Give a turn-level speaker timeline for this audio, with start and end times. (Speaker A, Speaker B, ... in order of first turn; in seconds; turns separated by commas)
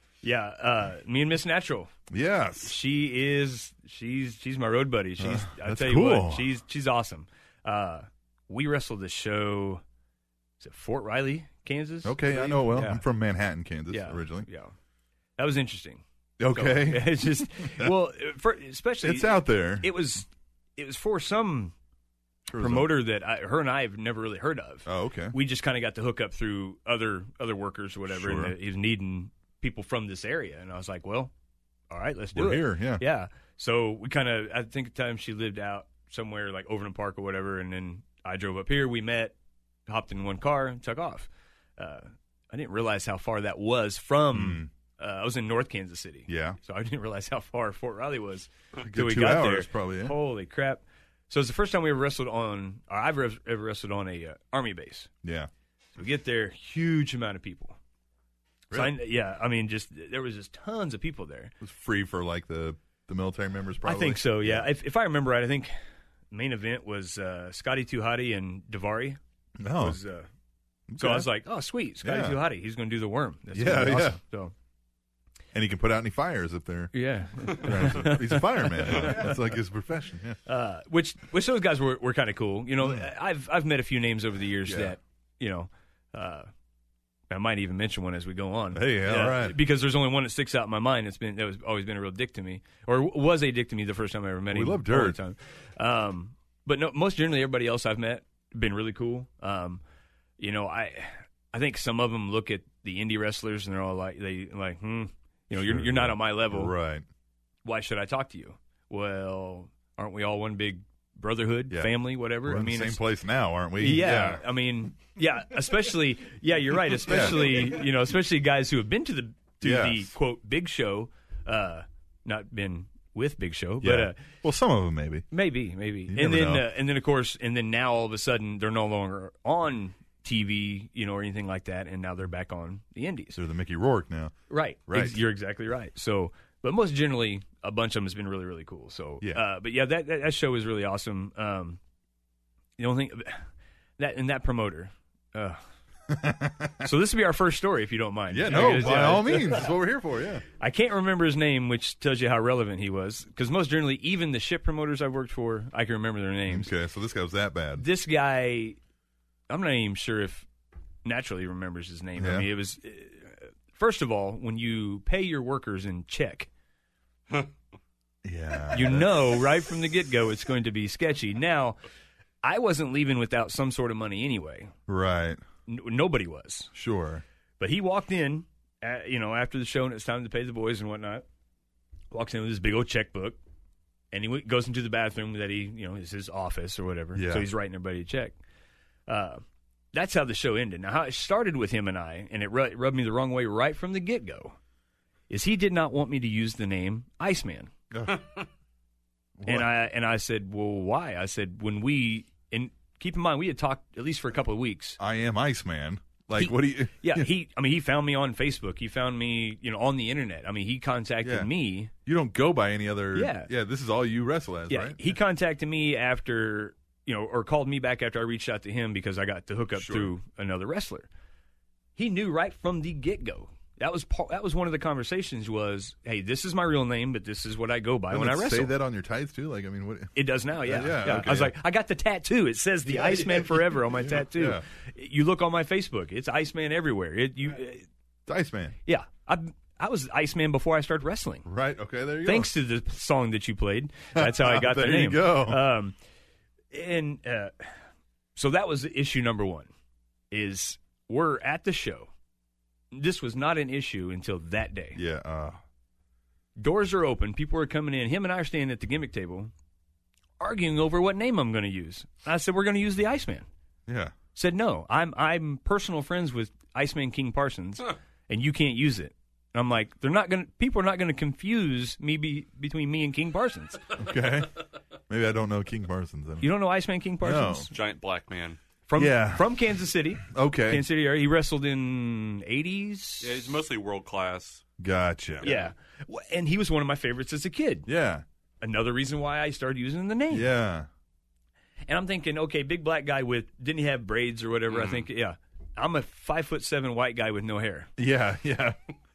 Speaker A: 0.2-1.9, Speaker B: 2.1-2.8, Speaker A: 2.6-9.8, Speaker B: 5.2-6.5, Speaker A: 10.6-13.0, Speaker B: 12.0-14.5, Speaker A: 13.9-14.7, Speaker A: 15.4-21.7, Speaker B: 16.4-17.9, Speaker B: 19.0-19.9, Speaker B: 22.5-22.9, Speaker A: 22.5-31.3, Speaker B: 24.9-25.4, Speaker B: 28.1-28.5, Speaker A: 31.9-39.3, Speaker B: 32.3-33.0, Speaker A: 39.9-55.1, Speaker B: 44.3-44.7, Speaker B: 46.3-46.6, Speaker B: 48.8-50.1, Speaker B: 55.2-55.5, Speaker A: 56.0-57.8, Speaker A: 58.7-61.5, Speaker B: 61.6-64.7, Speaker A: 63.8-65.7, Speaker A: 66.3-69.2, Speaker B: 69.6-70.0, Speaker A: 69.7-70.3, Speaker B: 70.9-71.3, Speaker A: 71.0-74.5, Speaker B: 72.0-72.4, Speaker B: 73.5-74.2, Speaker B: 75.5-80.4, Speaker A: 76.9-79.4, Speaker A: 80.5-86.5, Speaker B: 82.8-83.0, Speaker B: 84.7-85.0, Speaker A: 87.3-99.8, Speaker B: 88.7-89.6, Speaker B: 94.5-95.2, Speaker A: 100.4-106.7, Speaker B: 105.5-107.0, Speaker A: 107.6-113.0, Speaker B: 111.7-114.4, Speaker A: 113.8-124.2, Speaker B: 117.0-117.8, Speaker B: 119.6-120.1, Speaker B: 123.8-125.3, Speaker A: 125.3-133.4, Speaker B: 126.1-126.7, Speaker B: 133.3-134.3, Speaker A: 134.5-141.8, Speaker B: 134.9-135.2, Speaker A: 142.8-143.4, Speaker A: 144.0-145.6, Speaker B: 146.1-146.9, Speaker A: 146.8-149.7, Speaker B: 148.3-150.4, Speaker A: 150.6-156.7, Speaker B: 156.5-157.8, Speaker A: 157.8-158.8, Speaker A: 159.5-160.5, Speaker A: 161.0-166.5, Speaker B: 162.2-162.5, Speaker B: 168.2-169.4, Speaker A: 168.7-171.8, Speaker A: 172.4-174.7, Speaker B: 174.9-175.4, Speaker A: 175.7-176.7, Speaker B: 176.7-177.2, Speaker A: 177.6-181.2, Speaker A: 182.1-183.4, Speaker A: 184.1-188.4, Speaker B: 187.1-187.5, Speaker A: 189.1-189.4, Speaker A: 189.9-194.6, Speaker A: 195.3-197.7, Speaker B: 197.9-198.2, Speaker B: 199.4-199.7, Speaker A: 199.4-205.0, Speaker B: 205.0-207.3, Speaker A: 206.3-211.9, Speaker B: 211.2-211.5, Speaker B: 212.0-215.1, Speaker A: 213.1-213.5, Speaker A: 214.7-221.1, Speaker B: 219.8-220.1, Speaker A: 221.9-228.7, Speaker B: 228.1-231.5, Speaker A: 230.1-237.8, Speaker B: 232.9-234.6, Speaker B: 238.3-238.7, Speaker A: 238.8-241.4, Speaker B: 241.4-242.5, Speaker A: 242.2-245.9, Speaker B: 244.1-245.6, Speaker A: 246.7-247.7, Speaker A: 248.3-249.7, Speaker A: 250.3-252.1, Speaker A: 252.9-255.0, Speaker B: 254.9-255.6, Speaker A: 256.6-259.5, Speaker A: 260.4-263.4, Speaker B: 263.9-264.1, Speaker A: 264.3-273.8, Speaker B: 273.9-276.5, Speaker A: 276.4-277.7, Speaker B: 277.2-277.7, Speaker C: 277.7-278.6, Speaker A: 278.9-283.4, Speaker B: 278.9-279.5, Speaker B: 280.2-280.8, Speaker C: 283.2-284.6, Speaker B: 284.8-285.5, Speaker A: 285.4-287.9, Speaker B: 287.9-288.2, Speaker A: 288.6-290.5, Speaker B: 290.3-290.9, Speaker A: 291.9-297.9, Speaker C: 294.7-295.0, Speaker B: 298.0-298.8